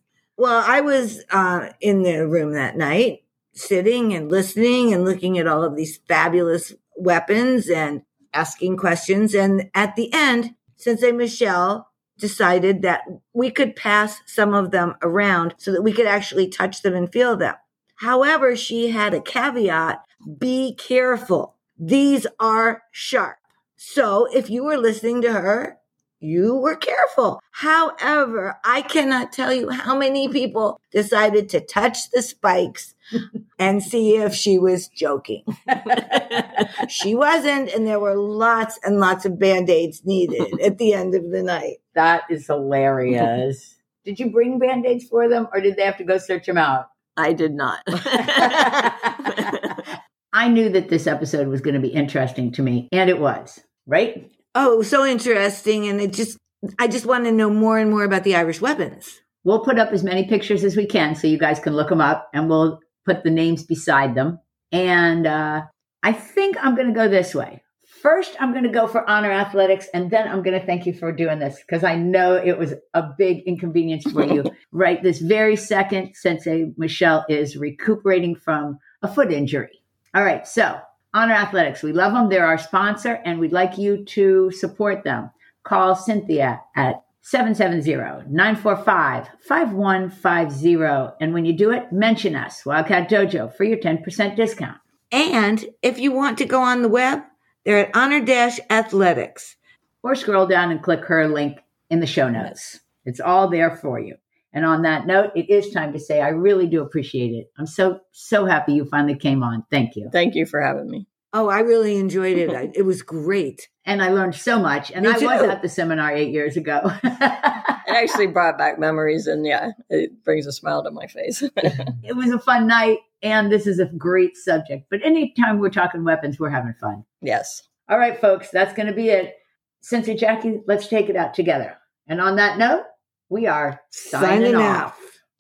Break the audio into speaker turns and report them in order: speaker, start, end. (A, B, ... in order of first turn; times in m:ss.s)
0:00.4-0:33.0 A
0:33.6-0:35.5 A
0:36.7-0:41.8 A
0:42.0-0:46.9 B
0:47.2-0:49.8 C
0:48.5-0:48.9 B
0:50.3-0:54.3 B
0:54.6-0:59.2 A
0:59.4-1:34.8 B
1:35.1-1:39.6 A
1:40.0-1:50.1 B
1:50.1-1:51.1 C
1:51.3-1:53.7 A
1:53.8-1:57.8 B
1:55.0-1:55.6 A
1:57.8-2:02.0 C
2:02.0-2:07.0 B
2:07.2-2:07.6 C
2:07.9-2:15.0 B
2:14.0-2:15.0 A